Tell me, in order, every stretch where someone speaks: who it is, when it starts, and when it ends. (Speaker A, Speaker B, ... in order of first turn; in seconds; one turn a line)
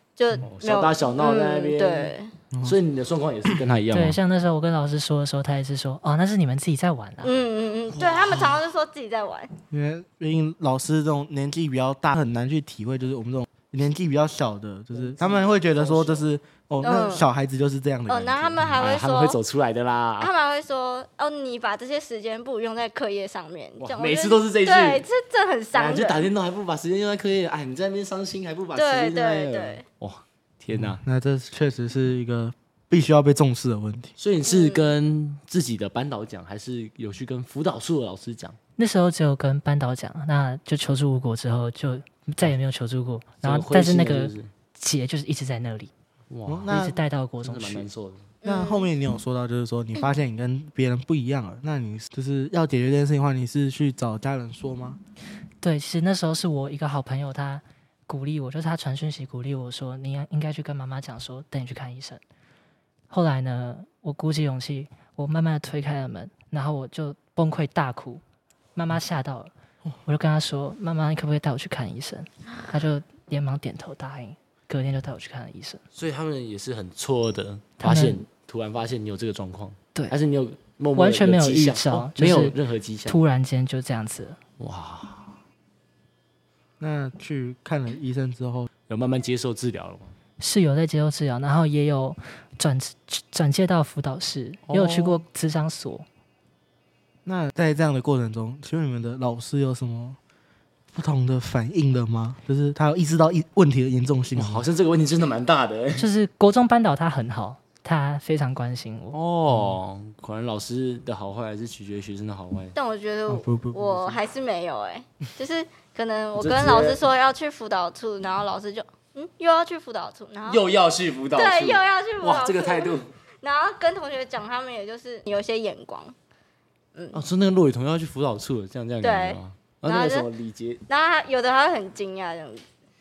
Speaker A: 0.1-2.3
Speaker B: 0.4-4.2
Speaker C: 3.9-7.3
Speaker A: 7.2-9.5
Speaker B: 8.0-8.5
Speaker D: 9.7-18.6
Speaker B: 14.9-16.3
Speaker A: 16.8-17.3
Speaker A: 18.1-19.4
Speaker B: 18.7-20.3
Speaker A: 20.2-26.3
Speaker B: 23.8-25.1
Speaker B: 25.7-31.0
Speaker A: 28.7-29.8
Speaker D: 30.7-34.1
Speaker B: 34.2-38.6
Speaker A: 34.4-34.9
Speaker C: 38.8-45.9
Speaker B: 43.4-44.5
Speaker B: 46.3-46.8
Speaker D: 46.5-47.0
Speaker C: 46.7-47.9
Speaker B: 47.4-48.3
Speaker A: 48.4-48.9
Speaker D: 48.4-55.0
Speaker C: 55.6-62.2
Speaker C: 63.1-68.2
Speaker C: 68.7-69.5
Speaker C: 70.0-75.8
Speaker B: 75.9-83.2
Speaker C: 77.8-78.2
Speaker C: 80.9-84.4
Speaker B: 84.6-85.3
Speaker D: 86.8-88.7
Speaker B: 88.9-90.1
Speaker C: 90.4-96.0
Speaker B: 94.7-95.2
Speaker D: 97.2-100.2
Speaker D: 100.9-104.7
Speaker B: 104.3-106.1
Speaker C: 105.9-109.2
Speaker B: 109.1-112.7
Speaker A: 112.7-120.6
Speaker D: 113.3-113.9
Speaker B: 113.8-114.1
Speaker B: 116.3-117.1
Speaker B: 120.5-123.1
Speaker A: 121.3-126.1
Speaker A: 126.9-127.2
Speaker B: 127.1-130.8
Speaker A: 129.0-130.3
Speaker A: 130.9-132.6